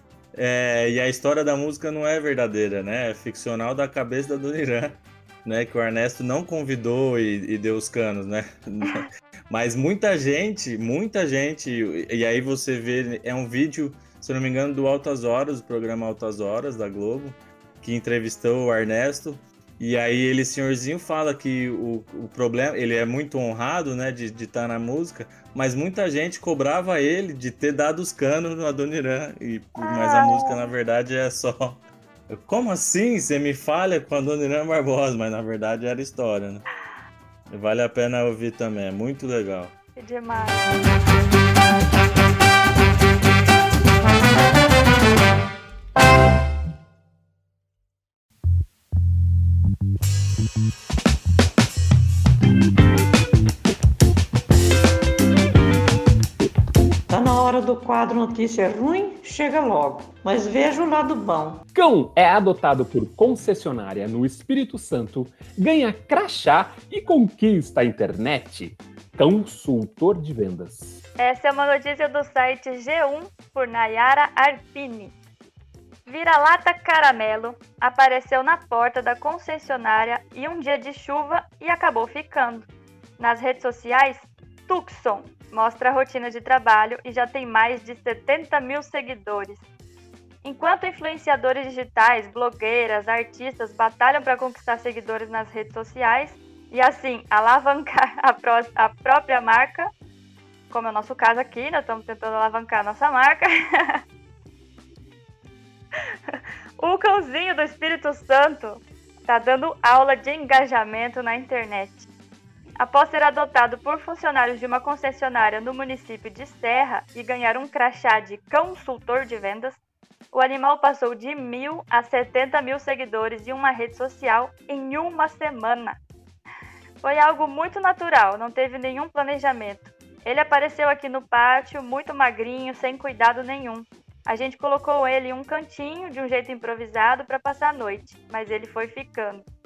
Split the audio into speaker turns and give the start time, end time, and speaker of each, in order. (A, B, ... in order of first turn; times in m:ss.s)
0:00.3-0:36.6 A
0:29.8-0:30.7 B
0:37.5-0:39.7 A
0:40.0-0:40.6 B
0:57.1-1:01.6 C
1:01.7-1:11.0 D
1:11.2-1:15.1 B
1:16.0-1:22.6 B
1:23.2-1:29.6 B
1:30.4-1:39.9 B
1:40.7-1:44.0 B
1:46.3-1:52.1 B
1:52.8-1:59.8 B
2:00.3-2:06.0 B
2:07.0-2:19.4 B